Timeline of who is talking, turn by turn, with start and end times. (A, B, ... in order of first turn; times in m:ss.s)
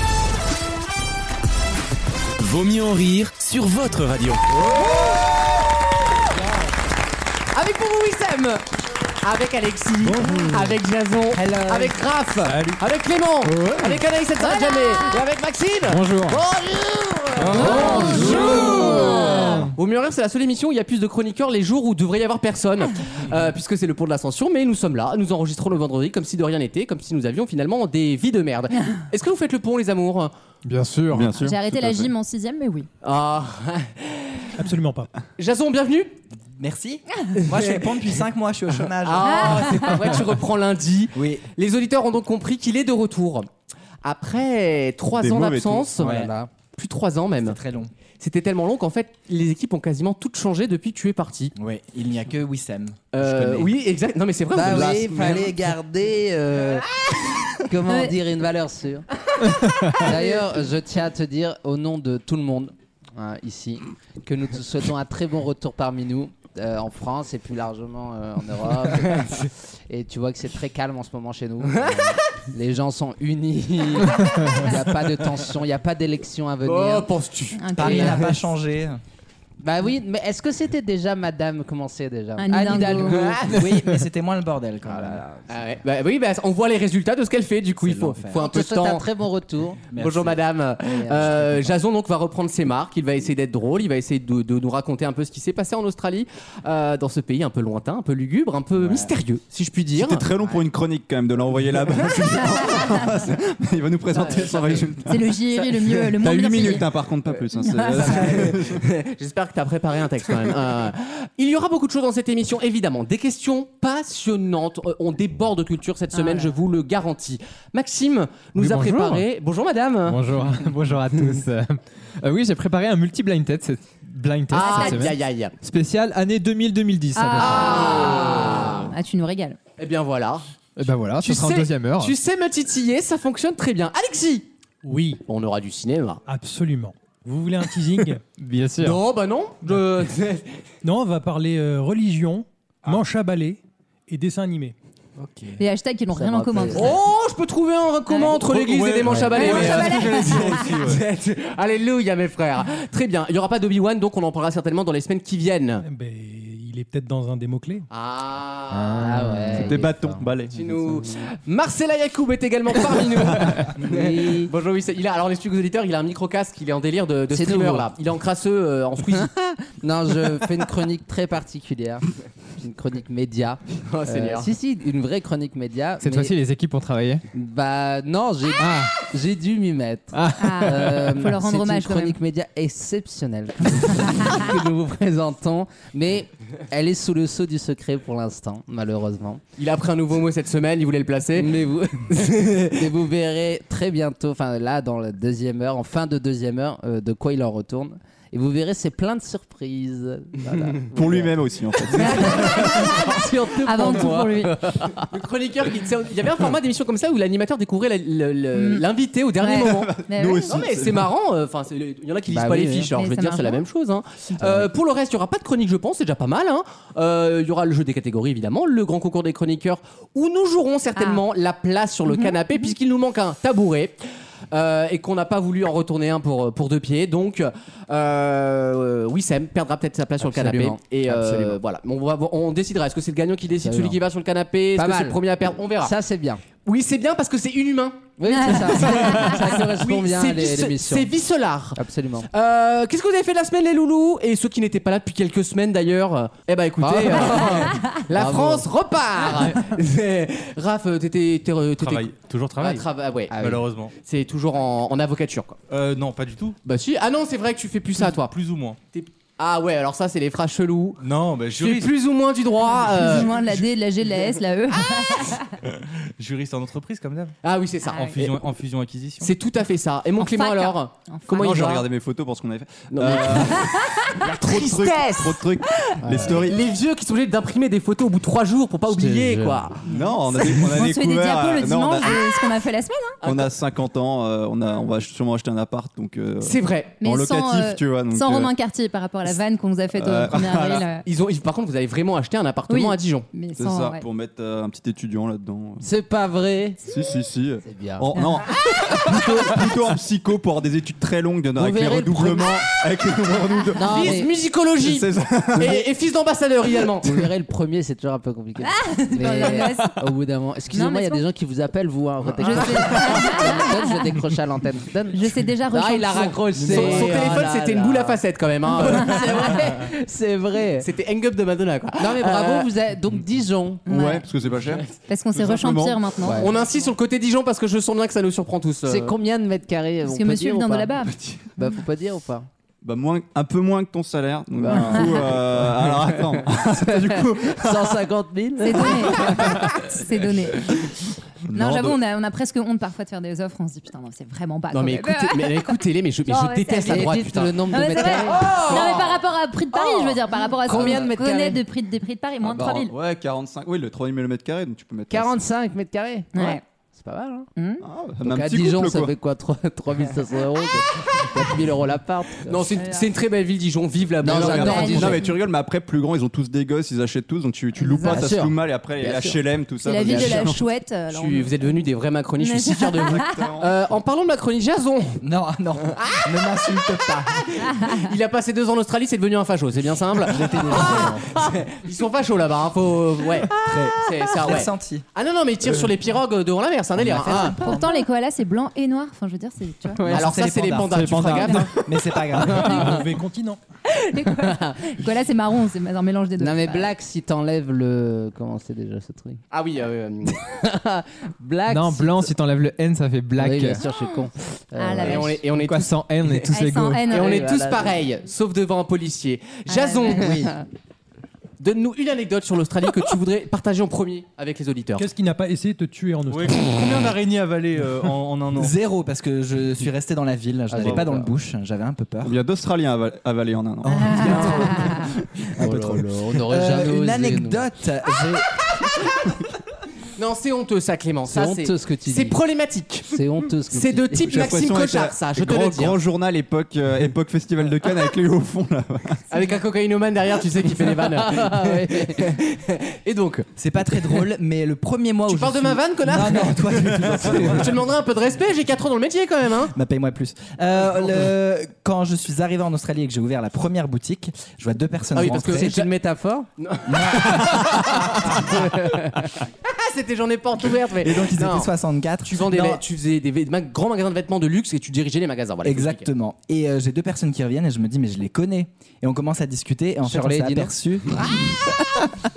0:02.4-0:04.5 A
0:04.7-0:05.1 B
0:07.5-0:08.6 B
0:09.2-0:30.3 B
0:10.2-0:10.7 C
0:11.3-0:12.0 D
0:12.4-0:12.8 E
0:13.5-0:14.0 C
0:14.4-0:15.2 F
0:15.8-0:16.4 C
0:17.4-0:17.8 E
0:17.6-0:19.0 G
0:17.6-0:19.6 F
0:30.6-0:31.3 C
0:31.1-0:32.1 H
0:31.3-0:32.9 F
0:33.0-0:34.5 B
0:34.6-0:35.1 I
0:35.4-0:36.1 B
0:36.6-0:39.7 D
0:37.4-0:38.1 B
0:38.9-0:43.5 B
0:39.2-0:40.2 F
0:41.2-0:41.4 D
0:44.0-0:46.1 B
0:45.2-0:45.9 H
0:46.0-0:46.5 G
0:46.0-0:46.3 D
0:46.8-0:47.6 B
0:47.4-0:47.9 D
0:48.2-0:51.5 B
0:51.6-0:53.0 D
0:53.1-0:55.4 B
0:53.2-0:53.6 H
0:54.5-0:56.9 G
0:54.6-0:55.6 H
0:57.7-0:59.0 G
0:57.9-0:58.2 F
0:59.6-1:00.0 C
0:59.9-1:17.1 G
1:16.6-1:18.4 B
1:17.6-1:18.2 F
1:17.8-1:19.0 D
1:19.6-1:23.7 G
1:22.4-1:23.3 F
1:23.1-1:23.4 B
1:23.5-1:25.2 D
1:24.9-1:25.4 G
1:25.5-1:29.0 B
1:27.8-1:28.4 D
1:28.3-1:30.0 G
1:29.9-1:30.4 D
1:29.9-1:40.2 B
1:30.8-1:31.7 G
1:40.0-1:45.2 H
1:44.1-1:46.1 B
1:45.0-1:48.6 F
1:46.2-1:48.8 H
1:48.0-2:00.2 B
1:56.1-1:56.6 F
1:58.5-1:59.3 C
2:00.1-2:07.8 C
2:04.5-2:05.5 B
2:04.5-2:05.2 F
2:07.2-2:09.6 F
2:07.4-2:08.9 B
2:09.8-2:10.4 B
2:10.8-2:12.2 C
2:11.2-2:14.5 B
2:14.8-2:15.2 I
2:15.3-2:16.2 B
2:16.3-2:18.2 I
2:18.4-2:19.0 C
2:18.8-2:20.6 B
2:19.6-2:20.0 I
2:20.8-2:24.8 I
2:25.6-2:27.0 F
2:26.1-2:26.9 G
2:26.7-2:35.8 B
2:28.2-2:31.0 E
2:29.3-2:30.8 F
2:35.8-2:37.9 I
2:37.9-2:39.8 B
2:38.9-2:39.4 C
2:39.0-2:40.2 G
2:39.5-2:40.8 H
2:40.5-2:49.6 B
2:43.8-2:44.5 G
2:47.3-2:47.9 G
2:49.2-2:52.1 G
2:52.6-2:56.3 G
2:53.9-2:54.5 B
2:56.0-2:57.2 C
2:57.3-3:09.4 G
2:58.6-2:58.9 C
3:00.1-3:01.1 C
3:00.4-3:02.2 F
3:09.6-3:11.5 B
3:11.4-3:21.3 G
3:12.1-3:12.8 B
3:20.9-3:23.0 H
3:22.0-3:25.1 G
3:22.0-3:24.6 F
3:25.0-3:29.9 B
3:28.5-3:28.9 F
3:29.4-3:30.6 F
3:29.5-3:31.1 H
3:30.4-3:44.0 B
3:32.3-3:32.9 G
3:32.9-3:33.6 F
3:41.0-3:41.2 F
3:42.1-3:42.7 F
3:44.5-3:56.0 B
3:50.2-3:51.6 G
3:53.6-3:54.0 G
3:54.8-3:55.2 G
3:55.8-3:56.4 G
3:56.6-4:13.4 B
3:58.2-4:01.1 G
3:58.3-3:59.4 F
4:01.8-4:02.3 G
4:06.8-4:08.7 G
4:11.8-4:12.8 E
4:13.3-4:13.6 G
4:13.4-4:13.9 E
4:14.0-4:15.6 B
4:15.7-4:16.6 E
4:16.6-4:18.3 B
4:18.1-4:18.8 E
4:18.9-4:23.4 B
4:21.0-4:21.9 E
4:22.7-4:25.5 F
4:26.2-4:27.4 E
4:27.4-4:28.3 B
4:27.9-4:29.3 E
4:29.2-4:31.9 B
4:30.2-4:31.8 F
4:31.4-4:36.6 H
4:32.9-4:35.4 B
4:33.7-4:34.1 F
4:36.0-4:39.8 B
4:38.9-4:39.6 G
4:39.9-4:42.2 H
4:39.9-4:43.2 F
4:40.4-4:40.7 B
4:43.2-4:43.5 B
4:43.2-4:48.5 H
4:46.4-4:47.0 B
4:47.0-4:51.1 F
4:49.9-4:50.9 H
4:51.1-4:53.3 B
4:52.7-4:54.0 F
4:53.6-4:55.8 H
4:55.8-4:56.8 G
4:56.8-5:04.2 H
4:57.6-4:58.1 G
4:58.2-4:58.5 F
5:01.6-5:02.6 G
5:03.8-5:04.3 G
5:03.8-5:07.1 B
5:04.8-5:05.9 H
5:07.0-5:20.9 G
5:08.6-5:10.0 F
5:10.7-5:11.2 F
5:12.4-5:14.0 F
5:15.1-5:16.4 F
5:16.1-5:19.9 B
5:20.8-5:22.7 B
5:22.0-5:23.9 G
5:23.9-5:24.3 F
5:23.9-5:26.0 H
5:25.1-5:26.8 F
5:26.2-5:26.5 G
5:26.3-5:29.1 B
5:28.9-5:32.5 G
5:30.0-5:31.7 F
5:32.8-5:38.0 H
5:34.6-5:39.7 G
5:34.9-5:35.2 F
5:38.6-5:40.9 F
5:41.5-5:42.0 H
5:41.5-5:53.0 F
5:44.7-5:49.2 B
5:46.9-5:49.1 G
5:49.7-5:51.6 G
5:50.8-5:51.0 H
5:52.4-5:55.3 H
5:55.1-5:57.5 G
5:56.4-5:56.6 F
5:57.6-5:57.8 F
5:57.8-5:59.1 H
5:58.2-6:02.7 G
6:02.4-6:05.2 B
6:02.8-6:03.1 F
6:04.2-6:05.3 G
6:04.2-6:10.6 H
6:04.5-6:05.3 F
6:07.8-6:08.2 F
6:08.1-6:09.4 G
6:09.8-6:11.8 F
6:10.0-6:10.4 G
6:11.1-6:15.2 B
6:12.4-6:13.6 F
6:13.2-6:13.7 H
6:15.2-6:17.3 D
6:16.0-6:27.6 B
6:20.2-6:21.3 D
6:23.6-6:25.0 D
6:27.0-6:27.8 D
6:27.6-6:30.0 F
6:30.0-6:30.2 G
6:30.0-6:32.9 D
6:30.1-6:31.7 B
6:30.8-6:31.6 C
6:32.5-6:33.1 F
6:32.5-6:33.6 I
6:34.0-6:36.9 F
6:36.4-6:39.4 G
6:39.5-6:40.4 B
6:40.3-6:42.3 G
6:41.7-6:43.8 C
6:43.4-6:45.4 G
6:43.8-6:44.2 F
6:44.8-6:45.4 F
6:45.0-6:50.5 B
6:45.6-6:47.1 C
6:46.5-6:47.4 F
6:47.1-6:48.0 G
6:49.7-6:50.5 F
6:51.6-6:55.1 B
6:55.0-6:56.9 I
6:56.3-6:58.7 E
6:58.6-7:02.4 D
7:00.7-7:01.1 H
7:00.8-7:01.3 G
7:02.2-7:05.0 H
7:03.8-7:05.0 D
7:04.2-7:04.8 G
7:05.6-7:07.7 G
7:05.6-7:08.5 D
7:10.2-7:13.1 B
7:11.3-7:12.4 G
7:13.1-7:14.5 G
7:13.7-7:16.0 B
7:14.2-7:19.2 H
7:19.3-7:23.5 B
7:21.1-7:22.3 G
7:23.6-7:27.8 D
7:25.3-7:29.8 B
7:29.7-7:35.9 D
7:35.2-7:36.0 B
7:35.6-7:36.5 G
7:36.6-7:41.7 B
7:36.9-7:38.6 D
7:41.0-7:42.8 D
7:42.2-7:46.0 B
7:45.6-7:51.1 D
7:50.0-7:50.8 G